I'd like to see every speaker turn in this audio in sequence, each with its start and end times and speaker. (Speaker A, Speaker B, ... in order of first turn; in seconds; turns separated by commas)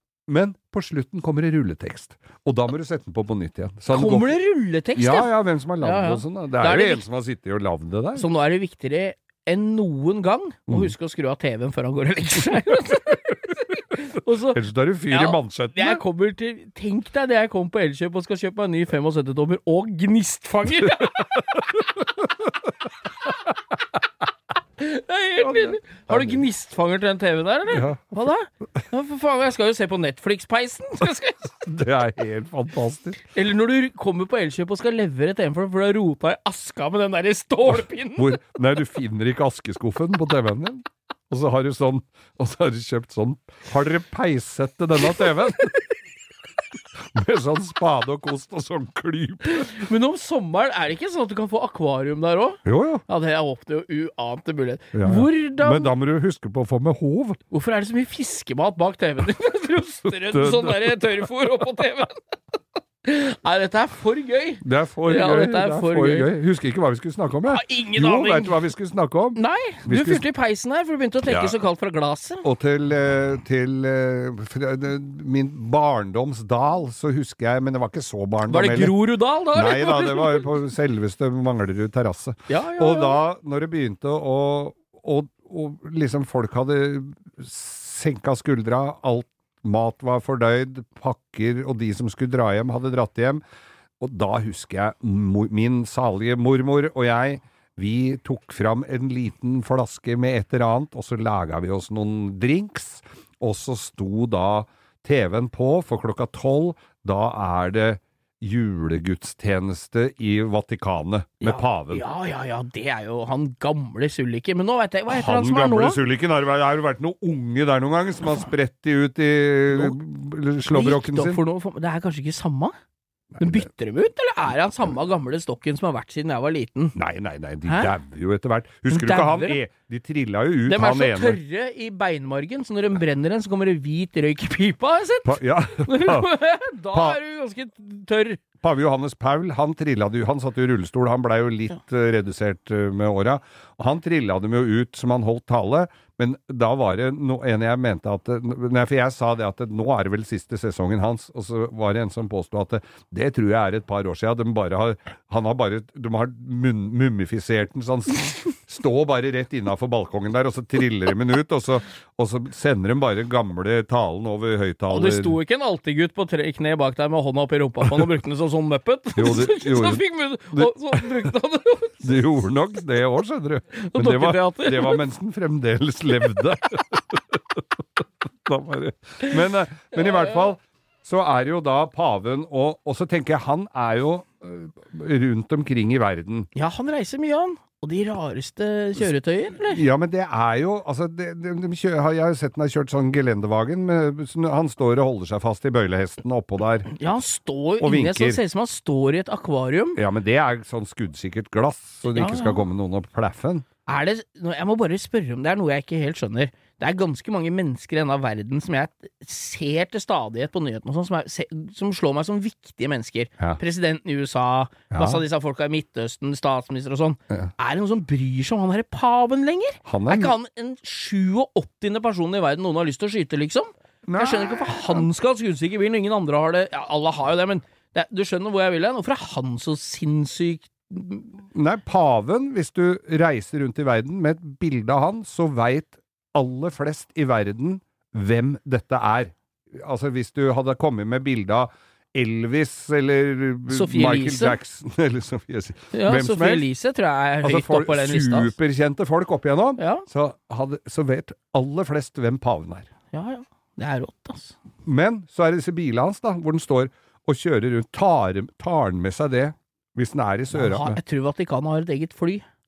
Speaker A: 0.3-4.3, Speaker B: 3.9-7.0, Speaker A: 5.0-8.3, Speaker B: 8.2-21.4, Speaker A: 14.5-16.0, Speaker A: 21.0-22.5, Speaker B: 24.8-31.7, Speaker A: 25.4-26.4, Speaker A: 27.7-28.1, Speaker A: 31.6-33.2, Speaker B: 33.3-38.4, Speaker A: 37.7-45.8, Speaker A: 47.0-49.8, Speaker B: 49.5-55.9, Speaker A: 52.6-53.0, Speaker A: 54.9-57.4, Speaker B: 57.5-62.2, Speaker A: 60.0-61.0, Speaker B: 63.0-66.3, Speaker A: 64.6-70.2, Speaker B: 67.5-68.6, Speaker B: 69.4-72.5, Speaker A: 71.2-71.5, Speaker A: 72.4-78.9, Speaker B: 78.5-80.5, Speaker A: 79.5-93.4, Speaker B: 82.5-83.2, Speaker A: 94.0-112.0, Speaker B: 111.4-116.0, Speaker A: 115.1-121.4, Speaker B: 119.7-120.0, Speaker B: 120.7-122.8, Speaker A: 123.3-123.7, Speaker B: 123.4-127.0, Speaker A: 127.0-131.4, Speaker B: 127.7-127.9, Speaker B: 128.9-129.6, Speaker B: 130.7-138.4, Speaker A: 135.2-136.3, Speaker A: 136.9-137.2, Speaker A: 138.6-165.4, Speaker B: 164.9-172.1, Speaker A: 169.2-171.3, Speaker A: 172.0-186.5, Speaker B: 173.8-175.0, Speaker B: 180.0-180.4, Speaker B: 186.6-189.8, Speaker A: 189.7-196.9, Speaker B: 196.9-200.0, Speaker A: 197.8-198.4, Speaker A: 200.0-203.7, Speaker B: 202.2-202.6, Speaker B: 203.9-231.3, Speaker A: 214.9-215.2, Speaker A: 219.8-220.3, Speaker A: 224.1-225.1, Speaker A: 231.5-246.7, Speaker B: 243.7-244.6, Speaker B: 245.9-248.5, Speaker A: 247.4-252.9, Speaker B: 249.8-250.1, Speaker B: 253.1-254.6, Speaker A: 254.8-261.0, Speaker B: 260.5-262.4